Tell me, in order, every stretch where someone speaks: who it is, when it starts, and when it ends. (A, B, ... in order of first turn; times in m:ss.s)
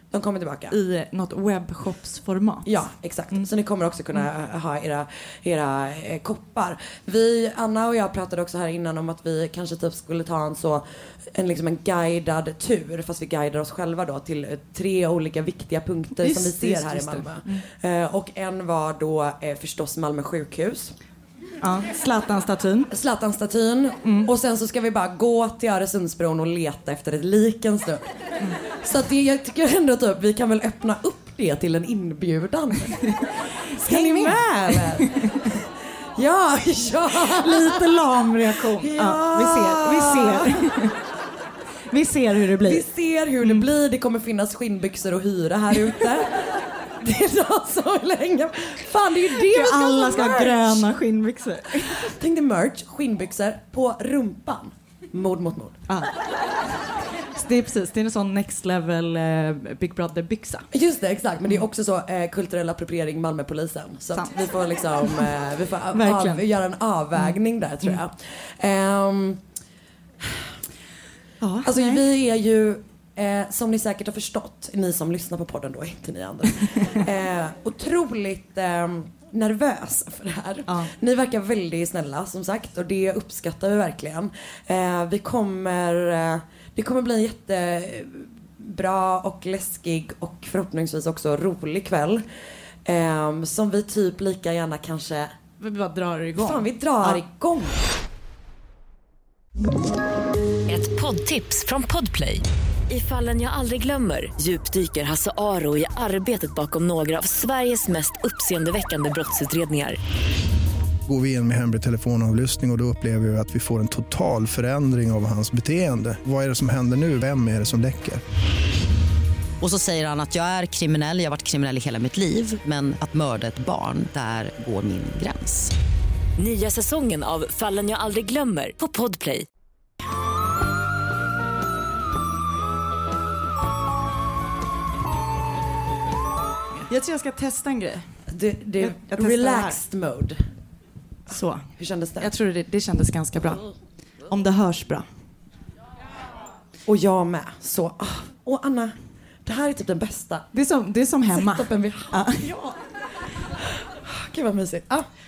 0:00.1-0:00.8 A
0:00.7-0:02.7 B
0:02.6-0:21.0 A
0:16.2-0:17.6 B
0:21.6-0:22.9 B
0:22.9-0:28.1 A
0:24.0-0:24.3 B
0:28.8-0:33.0 A
0:33.7-0:35.5 B
0:33.8-0:35.6 A
0:36.2-0:37.9 A
0:37.3-0:41.0 B
0:38.7-0:40.6 A
0:41.9-0:42.8 B
0:42.6-0:50.9 A
0:49.4-0:52.1 B
0:51.8-0:55.8 A
0:57.3-1:00.7 B
1:00.7-1:09.4 A
1:04.1-1:04.4 B
1:05.9-1:06.4 B
1:10.2-1:10.5 A
1:11.4-1:12.0 B
1:11.6-1:32.2 A
1:32.8-1:35.3 A
1:35.6-1:37.2 B
1:36.4-1:37.8 A
1:40.7-1:50.0 C
1:51.1-1:58.2 D
1:59.6-2:05.7 E
2:06.4-2:09.4 C
2:16.9-2:18.2 B
2:18.3-2:20.4 A
2:18.8-2:19.8 B
2:21.3-2:23.7 B
2:21.8-2:22.3 A
2:24.3-2:25.1 B
2:26.8-2:30.5 A
2:30.5-2:32.5 B
2:31.3-2:32.8 A
2:33.8-2:35.1 A